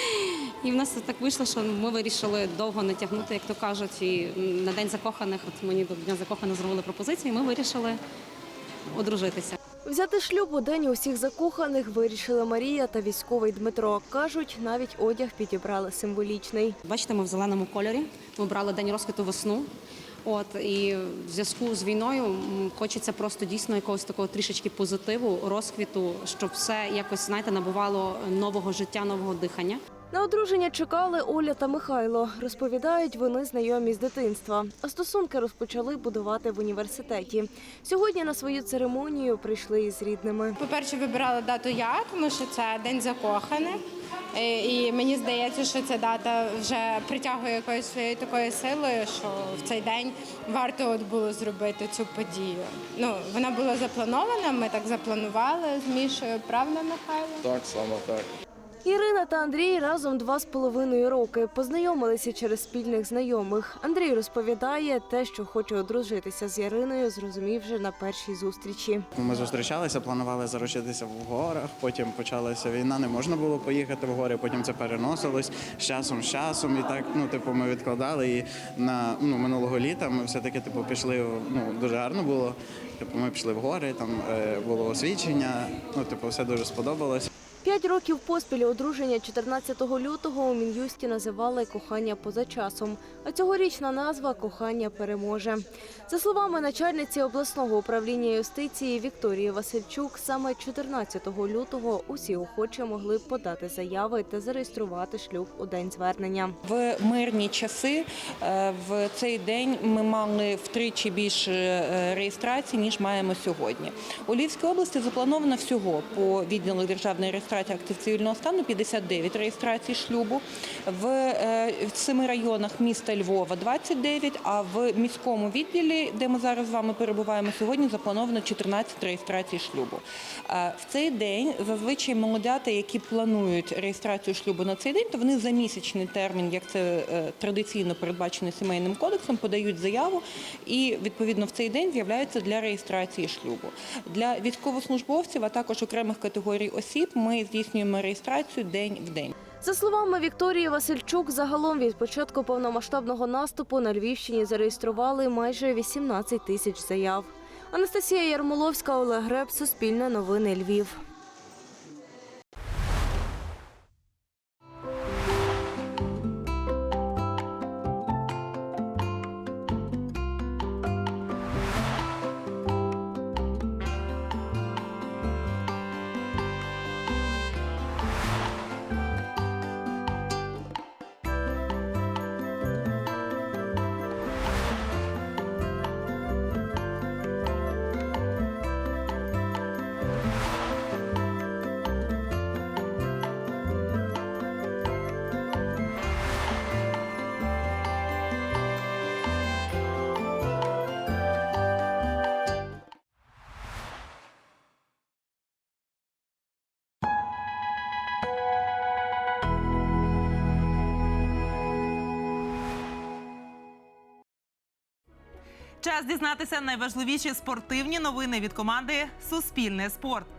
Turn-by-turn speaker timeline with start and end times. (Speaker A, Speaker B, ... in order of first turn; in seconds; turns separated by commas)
Speaker A: 0.6-8.0, Speaker A: 8.9-9.5, Speaker B: 9.8-16.8, Speaker A: 16.9-19.7, Speaker A: 20.2-29.8, Speaker B: 30.1-40.6, Speaker C: 40.6-43.8, Speaker C: 44.3-57.4, Speaker B: 58.9-69.0, Speaker D: 69.2-87.3, Speaker B: 87.6-106.5, Speaker E: 106.7-149.3, Speaker B: 149.6-161.0, Speaker E: 215.8-220.2